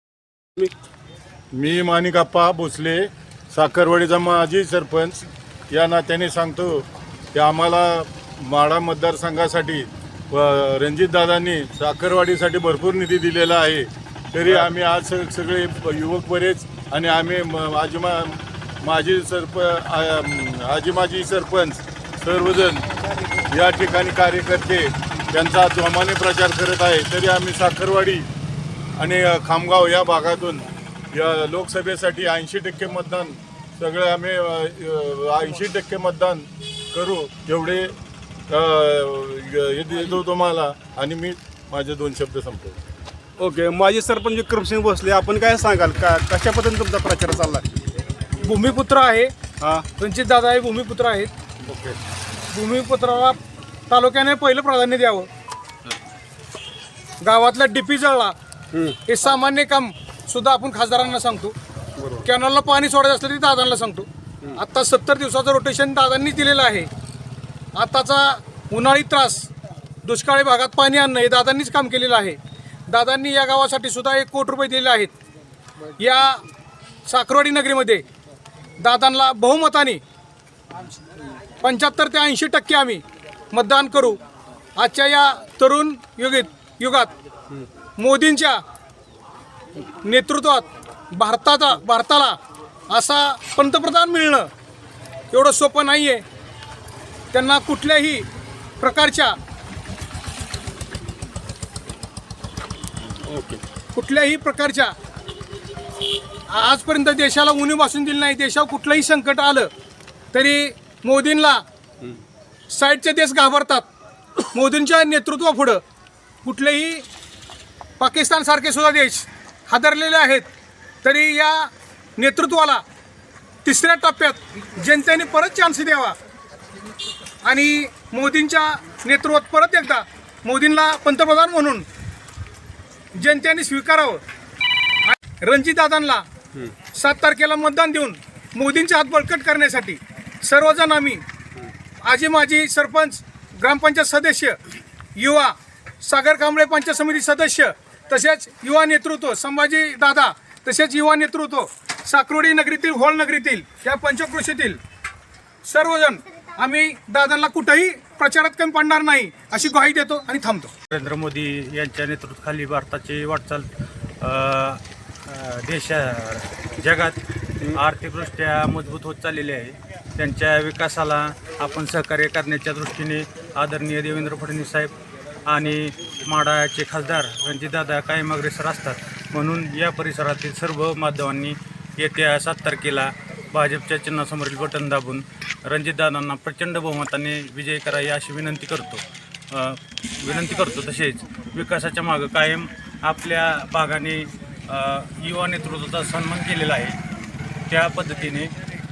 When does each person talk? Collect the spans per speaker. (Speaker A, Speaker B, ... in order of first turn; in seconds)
Speaker A: 1.5-22.9, 23.5-28.3, 29.0-37.9, 38.5-42.8
Speaker B: 43.4-47.7, 49.6-49.9, 51.6-52.0, 62.0-62.2, 103.2-103.6
Speaker C: 48.4-49.3, 50.0-51.3, 52.5-55.3, 57.2-58.3, 59.0-61.5, 62.2-66.9, 67.7-69.5, 70.0-72.4, 72.9-75.1, 76.0-76.4, 77.0-78.0, 78.8-80.0, 81.6-84.2, 84.8-87.1, 88.0-88.6, 89.9-92.3, 92.9-94.5, 95.3-96.2, 97.3-98.2, 98.8-99.3, 103.9-104.9, 106.5-109.7, 110.3-111.6, 112.7-113.9, 114.5-115.8, 116.4-117.0, 118.0-120.5, 121.0-122.8, 123.6-126.2, 127.4-131.8, 133.1-134.2, 135.1-136.2, 136.9-141.2, 142.0-144.6, 145.2-154.8, 155.6-160.7
Speaker D: 160.9-163.7, 164.2-174.9, 175.4-197.0, 197.7-198.5